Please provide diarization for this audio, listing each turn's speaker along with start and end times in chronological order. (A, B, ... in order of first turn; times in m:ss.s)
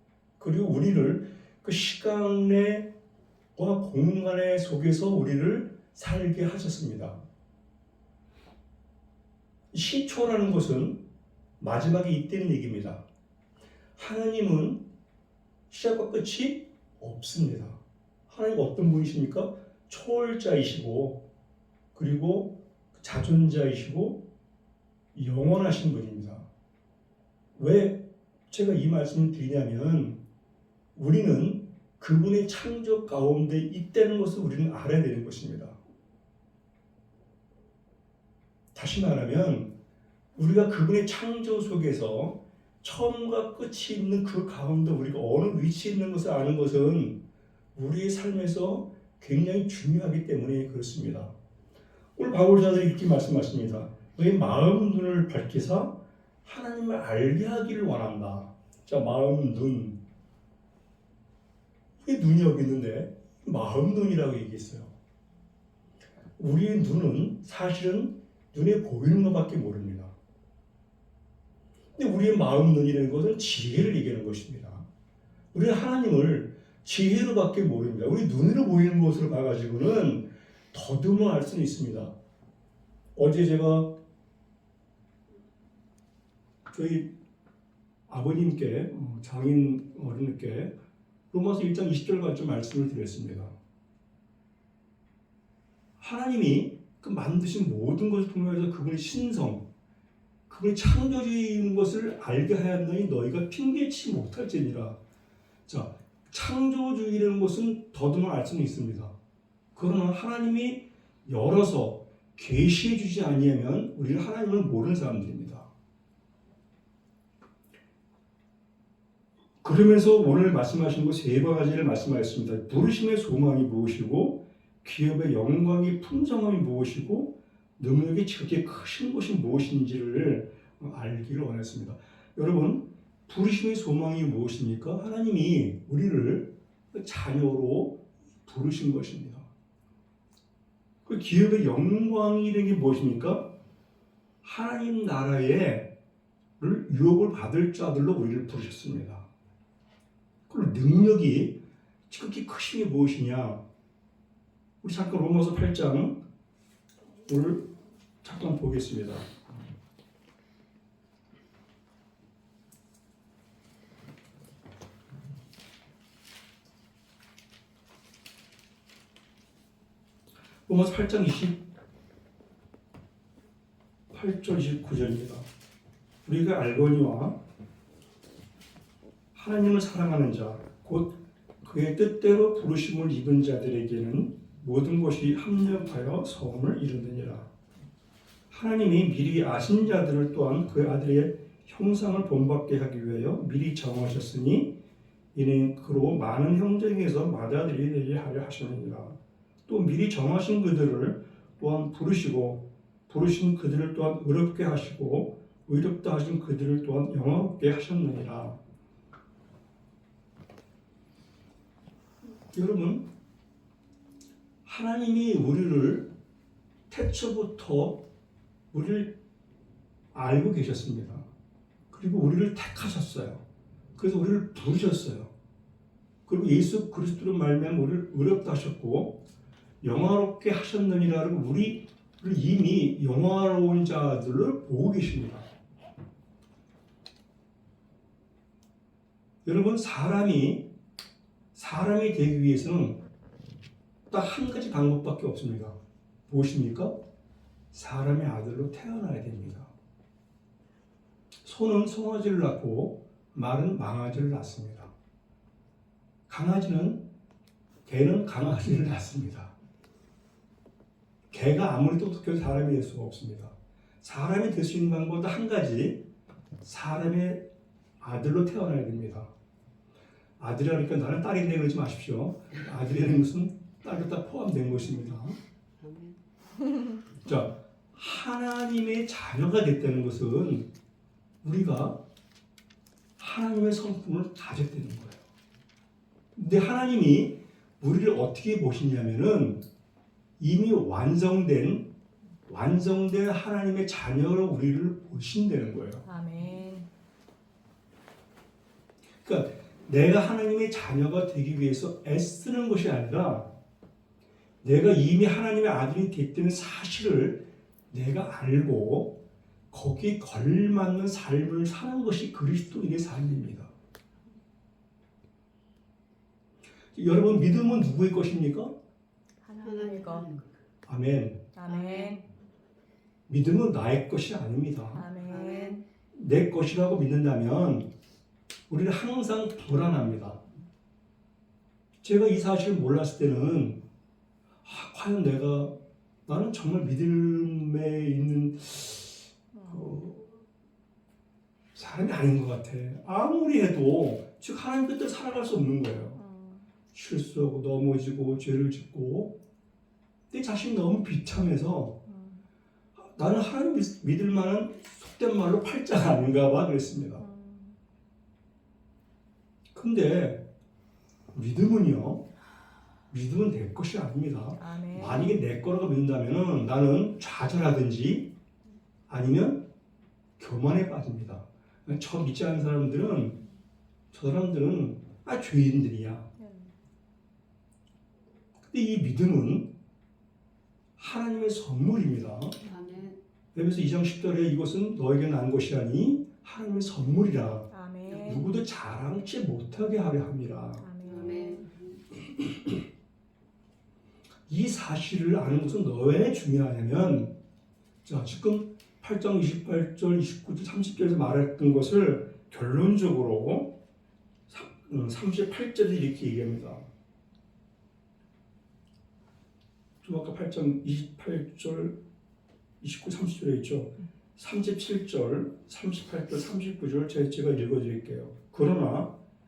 0:00.4-0:02.9 A
0:03.6-0:07.2 A
0:09.7-0:11.0 A
0:11.6-0:13.0 A
0:14.0-0:14.8 A
0:15.7-0:21.2 A
0:21.9-0:24.2 A
0:25.1-0:26.5 A
0:27.6-0:30.2 A
0:31.0-0:35.8 A
0:38.7-0:39.7 A
0:40.4-0:47.2 A
0:47.8-0:51.3 A
0:52.2-1:00.0 A
1:02.0-1:04.9 A
1:06.4-1:10.1 A
1:12.0-1:14.8 A
1:15.5-1:22.1 A
1:23.2-1:23.9 A
1:26.7-1:27.1 A
1:28.1-1:30.7 A
1:31.3-1:33.6 A
1:36.0-1:39.6 A
1:40.5-1:45.0 A
1:45.7-1:49.1 A
1:49.8-1:55.7 A
1:59.6-2:19.5 A
2:21.1-2:23.5 A
2:24.4-2:25.9 A
2:26.6-2:29.3 A
2:30.5-2:31.6 A
2:32.1-2:33.6 A
2:34.8-2:36.2 A
2:37.3-2:37.7 A
2:38.2-2:39.3 A
2:50.7-2:51.6 A
2:54.1-2:55.5 A
2:56.2-2:57.4 A
2:59.3-3:07.5 A
3:08.5-3:14.7 A
3:15.3-3:28.6 A
3:32.5-3:33.0 A
3:34.6-3:36.1 A
3:36.9-3:38.0 A
3:38.7-3:39.2 A
3:40.1-3:41.3 A
3:41.9-3:43.4 A
3:44.0-3:45.3 A
3:46.3-3:49.2 A
3:49.8-3:55.5 A
3:59.4-4:00.6 A
4:01.5-4:03.0 A
4:04.1-4:05.8 A
4:06.3-4:07.0 A
4:07.7-4:09.7 A
4:11.4-4:14.9 A
4:16.3-4:17.0 A
4:17.9-4:19.5 A
4:21.3-4:26.0 A
4:26.6-4:27.4 A
4:28.0-4:29.3 A
4:30.4-4:35.4 A
4:35.8-4:36.2 B
4:37.2-4:40.7 A
4:41.4-4:42.0 A
4:43.2-4:45.2 A
4:46.4-4:49.6 A
4:50.4-4:51.9 A
4:52.5-4:56.1 A
4:56.1-4:56.9 C
4:59.2-5:03.5 A
5:04.6-5:09.2 A
5:09.7-5:13.7 A
5:16.9-5:18.8 A
5:19.4-5:20.4 C
5:19.6-5:20.4 B
5:20.8-5:21.6 A
5:21.6-5:22.3 C
5:23.3-5:25.1 A
5:24.9-5:25.8 C
5:25.3-5:25.8 B
5:26.1-5:27.9 A
5:28.7-5:30.4 A
5:32.0-5:33.8 A
5:34.6-5:40.4 A
5:41.8-5:46.2 A
5:46.2-5:46.7 C
5:46.9-5:49.4 A
5:50.3-5:52.0 A
5:52.1-5:52.4 C
5:53.2-5:57.3 A
5:57.2-5:57.8 C
5:59.7-6:00.4 A
6:01.3-6:02.2 A
6:03.1-6:08.3 A
6:04.6-6:05.3 C
6:09.1-6:09.6 A
6:10.4-6:13.4 A
6:14.1-6:16.3 A
6:16.4-6:16.7 C
6:18.7-6:19.7 A
6:21.0-6:22.6 A
6:22.6-6:23.2 B
6:23.5-6:31.1 A
6:27.7-6:28.4 C
6:30.8-6:31.6 C
6:31.1-6:31.8 B
6:32.3-6:32.7 A
6:34.5-6:37.3 A
6:38.0-6:43.8 A
6:44.5-6:46.9 A
6:50.0-6:52.0 A
6:52.8-6:59.1 A